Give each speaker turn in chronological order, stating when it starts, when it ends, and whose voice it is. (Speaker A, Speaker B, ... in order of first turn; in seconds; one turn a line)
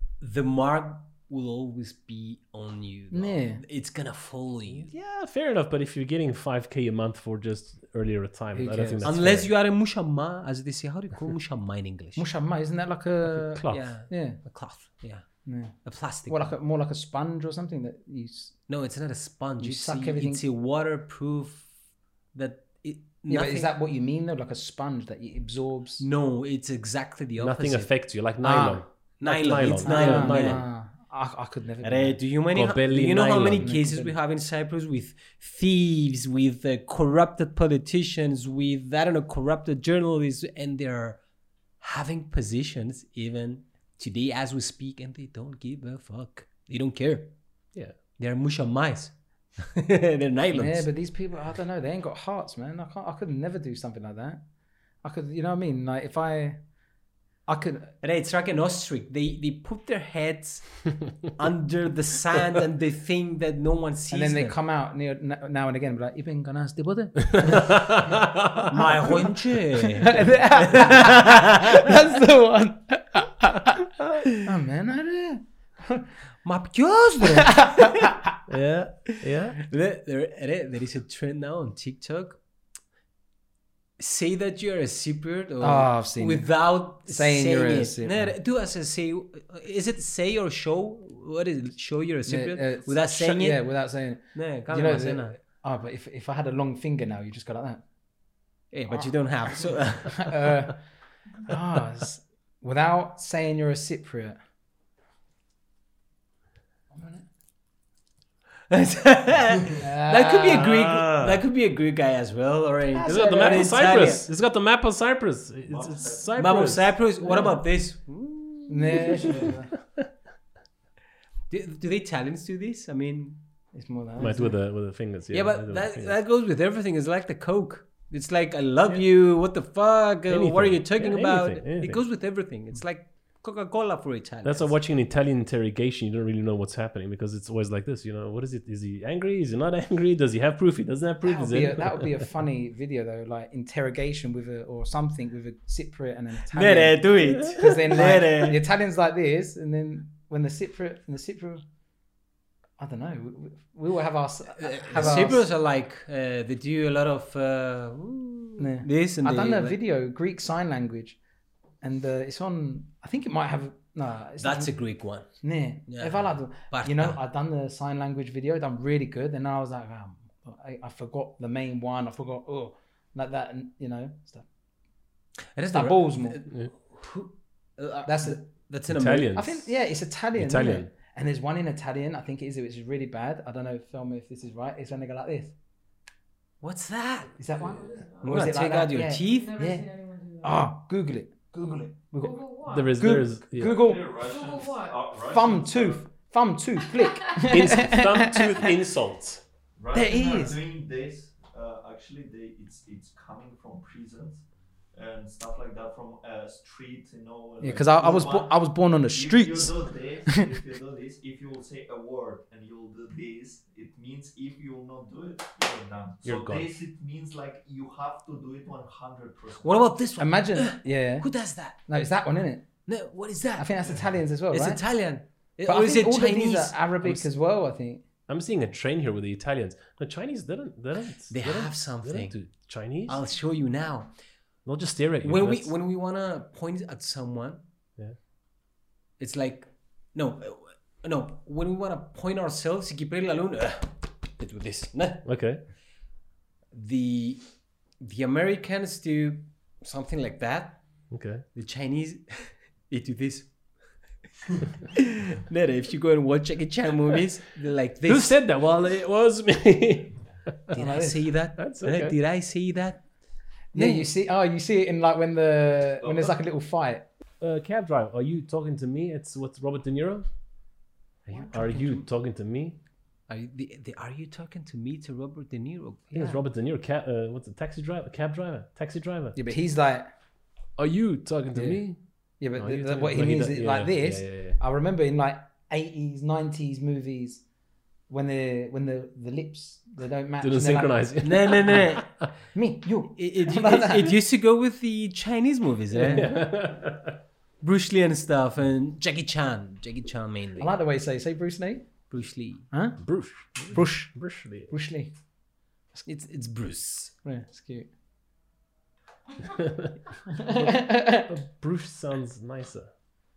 Speaker A: 0.2-4.9
Speaker B: 3.1-3.6
Speaker C: 4.8-9.5
Speaker B: 8.6-9.1
Speaker A: 9.0-12.3
Speaker B: 12.2-14.4
Speaker C: 13.2-13.9
Speaker A: 13.7-15.3
Speaker B: 15.5-18.6
Speaker A: 15.8-16.5
Speaker A: 18.7-21.7
Speaker B: 19.6-20.4
Speaker A: 22.3-23.7
Speaker B: 23.3-26.1
Speaker A: 26.0-27.9
Speaker C: 27.4-30.6
Speaker B: 28.4-28.8
Speaker A: 29.2-30.7
Speaker B: 29.8-32.2
Speaker A: 31.8-41.2
Speaker C: 32.5-33.8
Speaker B: 33.5-34.1
Speaker A: 41.8-47.3
Speaker A: 48.2-50.9
Speaker B: 50.5-54.4
Speaker B: 55.0-56.6
Speaker B: 57.5-57.9
Speaker A: 58.0-64.6
Speaker B: 64.1-67.9
Speaker C: 67.4-68.7
Speaker A: 68.7-71.9
Speaker B: 69.0-69.3
Speaker B: 69.9-76.1
Speaker A: 76.4-78.2
Speaker B: 77.2-78.2
Speaker C: 78.5-79.6
Speaker A: 79.6-82.4
Speaker A: 84.0-93.7
Speaker B: 85.6-86.5
Speaker B: 87.1-88.3
Speaker B: 92.3-97.8
Speaker A: 94.3-95.4
Speaker A: 98.7-100.7
Speaker B: 98.9-100.8
Speaker B: 101.4-104.4
Speaker B: 106.9-107.3
Speaker A: 108.7-114.3
Speaker B: 109.8-110.7
Speaker C: 110.5-111.4
Speaker B: 113.0-114.0
Speaker C: 113.0-116.9
Speaker D: 115.7-116.4
Speaker A: 116.4-119.5
Speaker B: 117.2-117.5
Speaker B: 118.7-119.7
Speaker C: 119.2-120.1
Speaker A: 121.5-123.4
Speaker B: 123.7-124.6
Speaker C: 124.2-126.2
Speaker A: 125.3-134.8
Speaker C: 130.3-132.0
Speaker C: 134.4-142.3
Speaker B: 141.2-151.6
Speaker A: 146.5-148.6
Speaker B: 152.8-155.5
Speaker A: 154.6-159.8
Speaker B: 158.6-161.2
Speaker B: 161.8-164.7
Speaker A: 164.4-165.3
Speaker B: 165.4-174.5
Speaker A: 165.9-167.2
Speaker A: 175.6-179.4
Speaker B: 175.7-176.4
Speaker B: 178.0-178.4
Speaker C: 178.9-179.6
Speaker B: 179.3-185.6
Speaker C: 180.3-180.9
Speaker A: 186.6-187.4
Speaker B: 187.4-189.9
Speaker E: 187.6-190.7
Speaker A: 188.2-189.6
Speaker B: 190.4-194.2
Speaker E: 192.2-193.2
Speaker C: 192.7-193.9
Speaker D: 193.6-196.0
Speaker E: 194.1-195.1
Speaker B: 195.3-198.7
Speaker C: 197.4-199.4
Speaker D: 199.8-204.4
Speaker B: 199.9-200.6
Speaker D: 204.9-219.8
Speaker B: 207.6-209.8
Speaker C: 216.2-216.8
Speaker A: 219.6-221.8
Speaker B: 220.2-221.3
Speaker B: 221.9-222.7
Speaker A: 222.9-223.7
Speaker B: 223.6-224.8
Speaker A: 224.5-227.3
Speaker B: 225.7-228.1
Speaker C: 228.3-233.2
Speaker A: 231.3-232.4
Speaker A: 233.1-234.1
Speaker C: 234.7-235.7
Speaker A: 235.2-237.6
Speaker A: 239.2-245.2
Speaker C: 245.2-245.6
Speaker A: 246.7-247.4
Speaker A: 248.0-251.0
Speaker C: 251.1-251.4
Speaker A: 251.5-254.0
Speaker A: 254.9-258.4
Speaker C: 258.1-260.7
Speaker A: 260.7-263.1
Speaker B: 260.7-261.3
Speaker C: 261.6-262.2
Speaker A: 263.7-264.1
Speaker B: 263.7-267.1
Speaker D: 266.0-266.4
Speaker C: 267.4-270.3
Speaker C: 271.3-272.8
Speaker A: 271.4-272.0
Speaker A: 273.3-276.4
Speaker C: 276.1-279.4
Speaker B: 279.4-280.1
Speaker C: 280.8-282.0
Speaker B: 281.5-281.8
Speaker B: 282.4-287.4
Speaker C: 282.6-284.6
Speaker B: 288.1-291.1
Speaker C: 290.4-292.3
Speaker A: 291.2-292.1
Speaker B: 292.5-294.2
Speaker A: 293.2-296.4
Speaker B: 296.0-296.2
Speaker C: 296.1-297.2
Speaker A: 297.6-300.7
Speaker B: 300.6-301.9
Speaker A: 302.1-302.7
Speaker B: 302.7-303.0
Speaker C: 303.0-304.7
Speaker B: 303.7-305.1
Speaker A: 306.1-307.2
Speaker B: 307.2-307.9
Speaker C: 309.4-312.9
Speaker B: 310.3-311.3